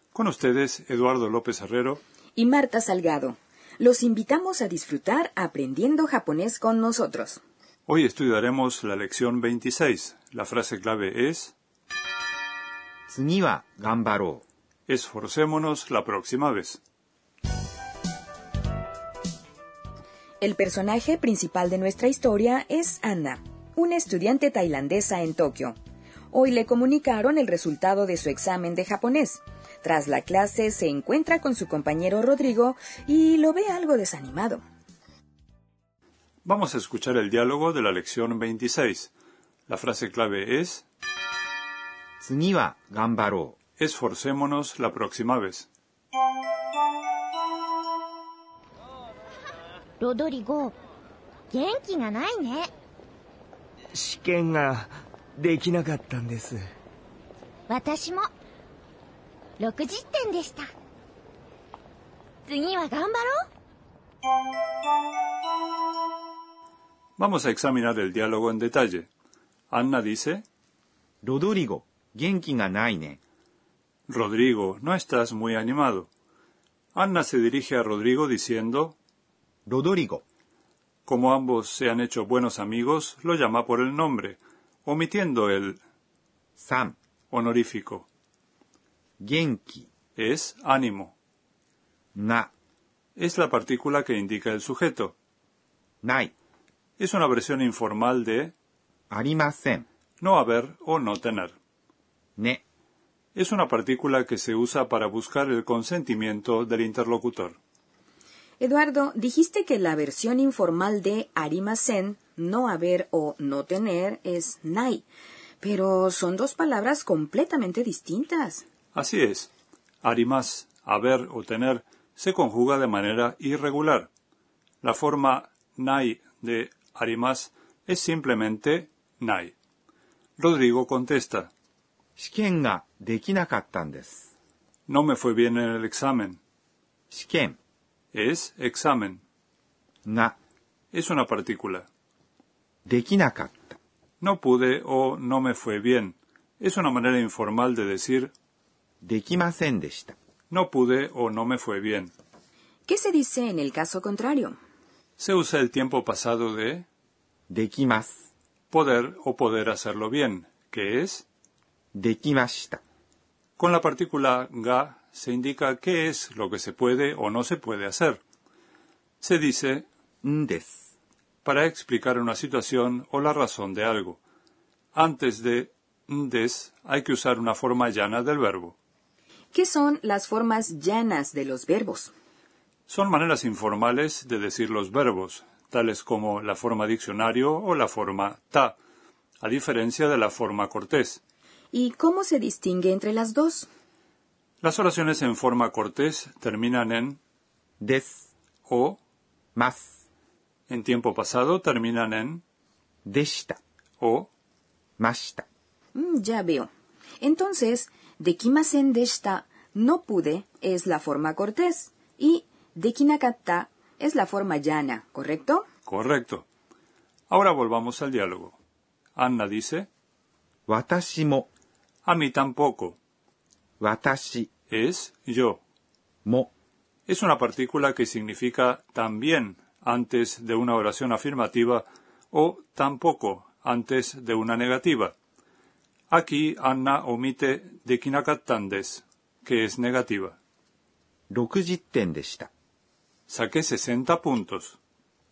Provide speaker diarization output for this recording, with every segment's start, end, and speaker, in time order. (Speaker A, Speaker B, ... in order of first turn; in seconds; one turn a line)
Speaker A: 0.1-2.0
Speaker B: 2.4-7.4
Speaker A: 7.9-11.5
Speaker C: 13.1-14.4
Speaker A: 14.9-16.8
Speaker B: 20.4-25.8
Speaker B: 26.3-34.6
Speaker A: 36.4-39.1
Speaker A: 39.7-40.8
Speaker C: 42.2-43.6
Speaker A: 43.8-45.7
Speaker D: 50.0-50.7
Speaker D: 51.5-52.7
Speaker E: 53.9-56.6
Speaker D: 57.7-58.3
Speaker D: 59.6-60.7
Speaker D: 62.5-63.5
Speaker A: 67.2-69.1
Speaker A: 69.7-70.4
Speaker C: 71.2-73.2
Speaker A: 74.1-76.1
Speaker A: 76.9-79.0
Speaker C: 79.7-80.2
Speaker A: 81.0-85.8
Speaker C: 86.6-87.0
Speaker A: 87.3-88.1
Speaker C: 89.2-89.9
Speaker A: 90.2-91.1
Speaker C: 92.1-92.5
Speaker A: 93.2-95.2
Speaker C: 96.0-96.3
Speaker A: 97.0-98.5
Speaker C: 99.1-99.8
Speaker A: 100.2-101.6
Speaker A: 103.3-107.6
Speaker B: 108.6-115.0
Speaker B: 115.6-118.6
Speaker A: 118.9-119.5
Speaker A: 120.0-124.1
Speaker A: 124.8-129.5
Speaker A: 130.4-131.5
Speaker C: 132.2-134.3
Speaker A: 134.9-136.4
Speaker C: 137.1-137.6
Speaker A: 138.1-139.2
Speaker C: 140.0-140.3
Speaker A: 140.9-141.9
Speaker C: 142.8-143.8
Speaker A: 144.2-148.3
Speaker C: 149.0-150.1
Speaker A: 150.5-152.1
Speaker B: 152.9-154.6
Speaker A: 155.2-156.8
Speaker C: 157.5-158.2
Speaker A: 158.7-161.3
Speaker C: 161.9-162.8
Speaker A: 163.6-168.2
Speaker A: 169.2-169.9
Speaker C: 170.2-170.9
Speaker A: 171.4-174.2
Speaker A: 174.9-178.8
Speaker B: 179.5-182.1
Speaker A: 182.9-188.8
Speaker A: 189.4-191.2
Speaker B: 191.7-193.7
Speaker A: 194.6-197.2
Speaker C: 197.8-198.3
Speaker A: 198.7-199.0
Speaker C: 199.5-200.0
Speaker A: 200.7-202.4
Speaker C: 203.0-203.6
Speaker A: 204.0-204.3
Speaker C: 205.0-205.4
Speaker B: 205.9-206.7
Speaker B: 207.2-215.6
Speaker A: 215.8-216.5
Speaker A: 217.3-218.6
Speaker A: 219.2-219.9
Speaker C: 220.7-221.5
Speaker A: 222.0-223.0
Speaker C: 223.8-224.5
Speaker A: 224.7-225.6
Speaker C: 226.2-226.5
Speaker A: 227.1-235.1
Speaker A: 236.1-240.4
Speaker C: 241.3-242.5
Speaker A: 243.3-244.8